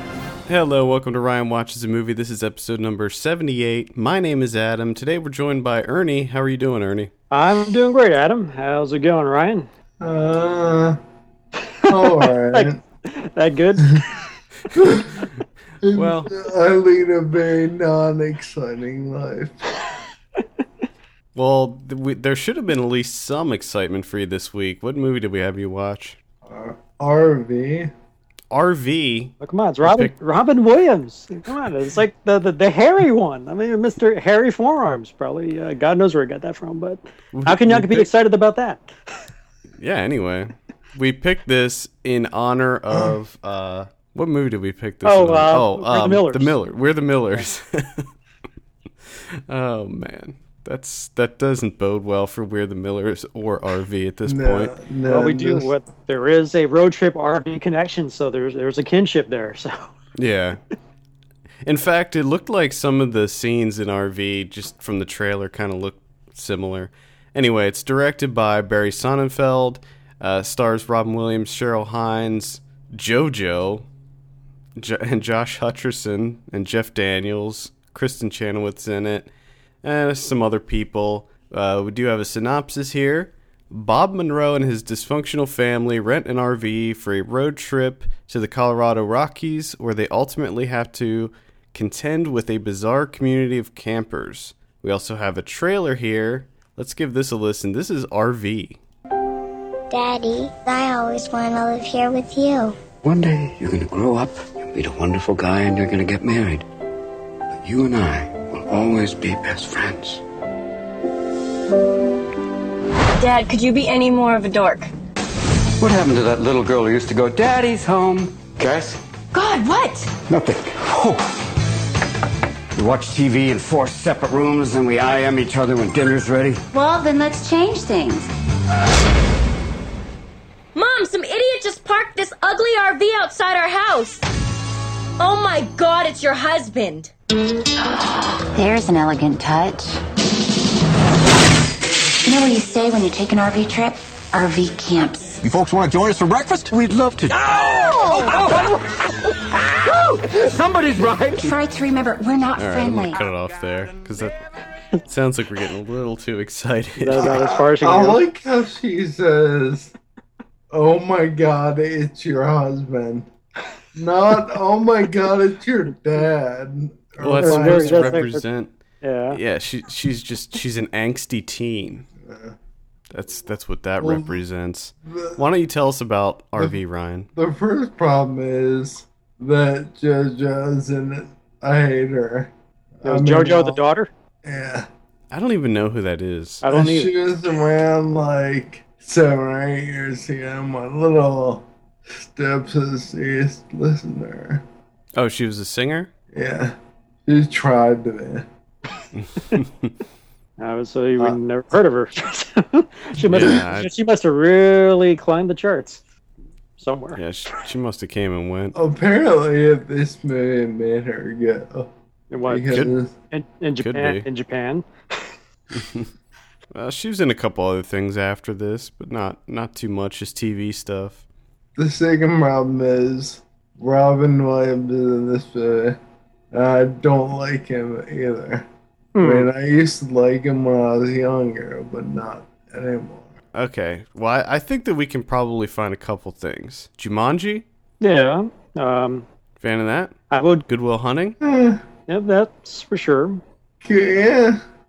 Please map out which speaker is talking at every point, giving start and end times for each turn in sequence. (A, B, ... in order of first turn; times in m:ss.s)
0:00.5-0:07.1 A
0:07.3-0:09.7 B
0:10.0-0:11.0 C
0:11.9-0:12.8 C
0:12.0-0:14.1 B
0:14.7-0:15.2 C
0:15.8-0:19.5 C
0:15.9-0:16.3 A
0:21.3-0:26.2 A
0:26.4-0:27.9 C
0:28.5-0:29.3 A
0:29.4-0:38.9 B
0:29.8-0:30.1 A
0:37.3-0:38.1 A
0:39.8-0:48.1 A
0:45.0-0:46.6 B
0:49.5-0:54.7 A
0:54.2-0:55.7 C
0:55.1-0:59.9 B
1:00.2-1:00.6 A
1:01.6-1:13.9 A
1:14.8-1:19.3 A
1:19.8-1:38.8 A
1:39.9-1:42.8 D
1:43.0-1:46.6 E
1:47.6-1:50.2 E
1:53.2-1:54.9 F
1:55.8-1:59.0 E
1:59.3-2:00.0 G
2:00.3-2:01.4 E
2:02.7-2:06.6 E
2:06.7-2:08.3 G
2:10.7-2:14.3 F
2:15.2-2:17.1 F
2:18.5-2:20.0 G
2:22.2-2:25.4 G
2:25.4-2:28.8 E
2:29.6-2:31.6 E
2:31.4-2:33.2 G
2:32.6-2:34.3 A
2:35.0-2:37.4 A
2:37.0-2:38.2 B
2:37.8-2:39.9 C
2:40.7-2:43.3 C
2:43.9-2:48.2 C
2:47.2-2:48.7 A
2:47.4-2:48.4 B
2:49.0-2:49.4 B
2:49.3-2:52.0 A
2:52.2-2:52.5 C
2:53.1-2:57.3 A
2:54.0-2:54.4 C
2:55.0-2:55.4 C
2:57.3-3:03.8 C
3:03.0-3:04.1 B
3:04.4-3:04.8 C
3:05.3-3:06.6 A
3:06.6-3:07.1 B
3:06.6-3:14.6 C
3:15.1-3:16.1 A
3:16.3-3:16.7 C
3:17.2-3:18.4 C
3:19.2-3:19.9 A
3:20.6-3:26.0 B
3:23.2-3:23.9 A
3:23.3-3:23.6 C
3:26.8-3:27.2 B
3:27.2-3:28.8 A
3:28.7-3:31.9 C
3:32.3-3:34.9 B
3:32.4-3:33.1 C
3:33.8-3:34.3 A
3:35.8-3:36.0 A
3:36.7-3:41.2 A
3:41.8-3:46.0 C
3:46.5-3:48.7 C
3:49.1-3:49.5 B
3:49.2-3:53.3 C
3:53.5-3:57.6 A
3:58.0-3:59.2 B
3:59.6-4:00.1 A
4:00.3-4:00.6 B
4:00.7-4:01.4 A
4:01.4-4:01.8 C
4:02.1-4:03.4 B
4:03.8-4:04.6 C